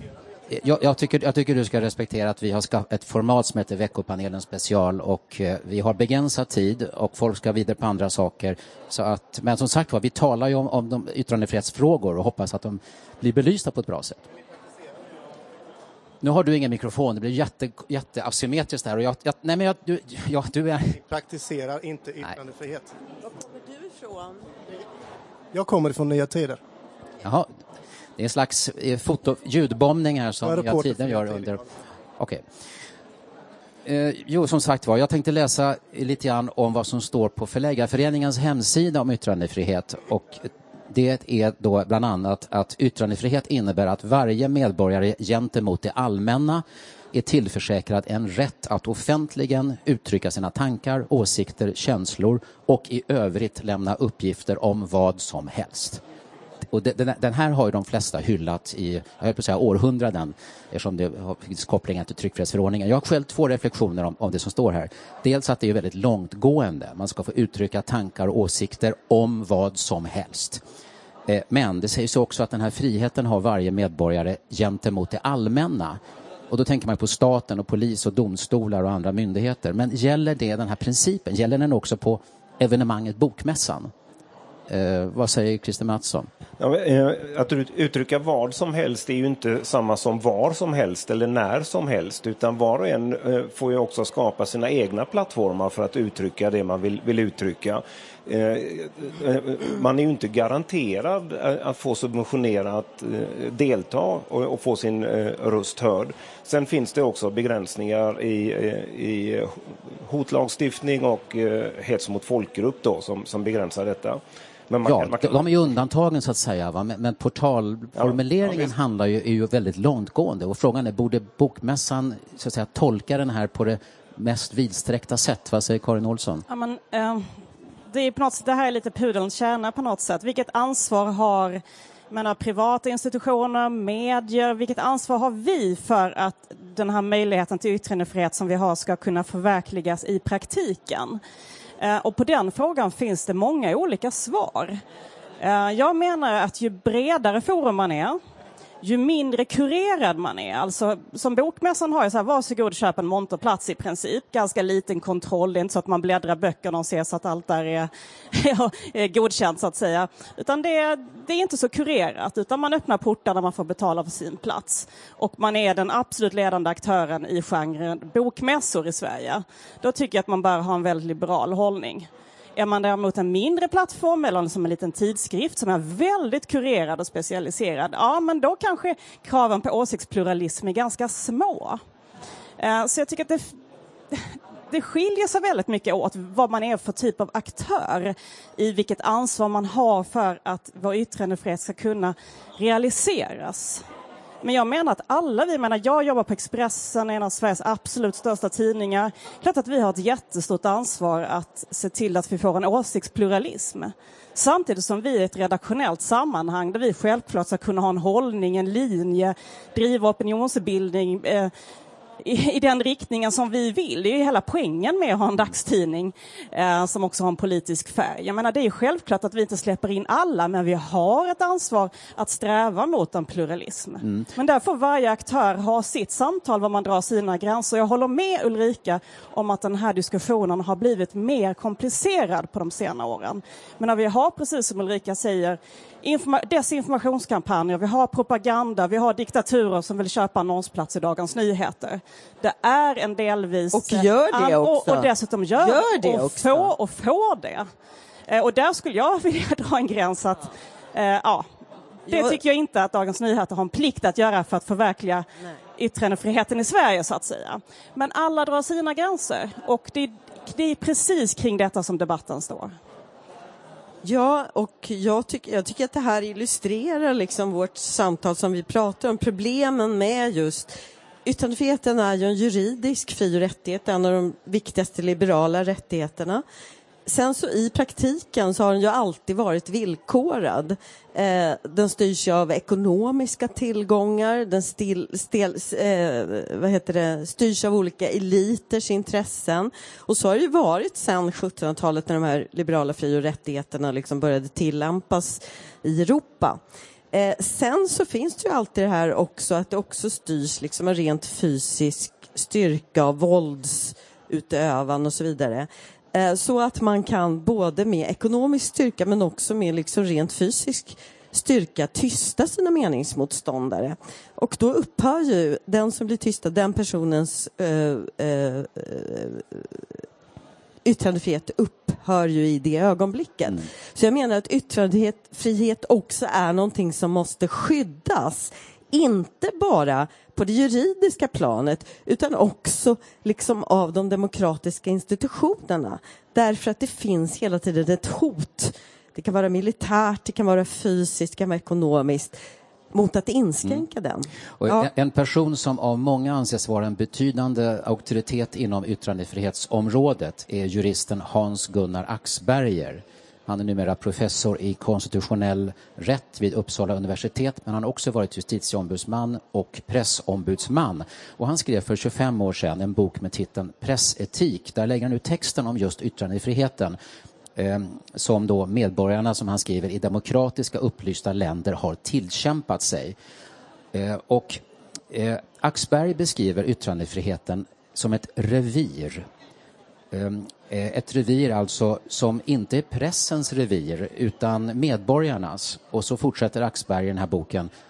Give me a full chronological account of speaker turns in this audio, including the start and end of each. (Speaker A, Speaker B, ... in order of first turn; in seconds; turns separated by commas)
Speaker A: 0.5-14.3, Speaker A: 16.2-21.0, Speaker B: 21.0-22.9, Speaker C: 23.2-24.4, Speaker B: 25.5-26.6, Speaker A: 27.2-27.5, Speaker A: 28.2-31.6, Speaker B: 30.4-31.6, Speaker A: 32.2-32.4, Speaker A: 33.9-56.0, Speaker A: 56.7-70.6, Speaker A: 71.3-83.9, Speaker A: 84.7-86.3, Speaker D: 86.6-115.4, Speaker A: 114.8-126.4, Speaker D: 118.0-118.7, Speaker E: 126.5-127.3, Speaker E: 127.9-141.2, Speaker E: 141.8-144.8, Speaker E: 145.4-148.2, Speaker E: 148.8-181.8, Speaker E: 182.6-183.5, Speaker E: 184.1-193.8, Speaker E: 194.4-211.5, Speaker E: 212.2-247.7, Speaker C: 243.7-246.7, Speaker E: 248.3-251.4, Speaker C: 252.1-252.4, Speaker E: 252.1-255.2, Speaker E: 255.8-262.7, Speaker C: 264.0-270.7, Speaker C: 271.2-276.4, Speaker C: 277.1-296.6, Speaker C: 297.1-319.8, Speaker C: 320.9-342.4, Speaker C: 342.9-344.9, Speaker A: 344.6-367.0, Speaker A: 367.6-373.2, Speaker A: 373.9-379.3, Speaker A: 380.1-387.7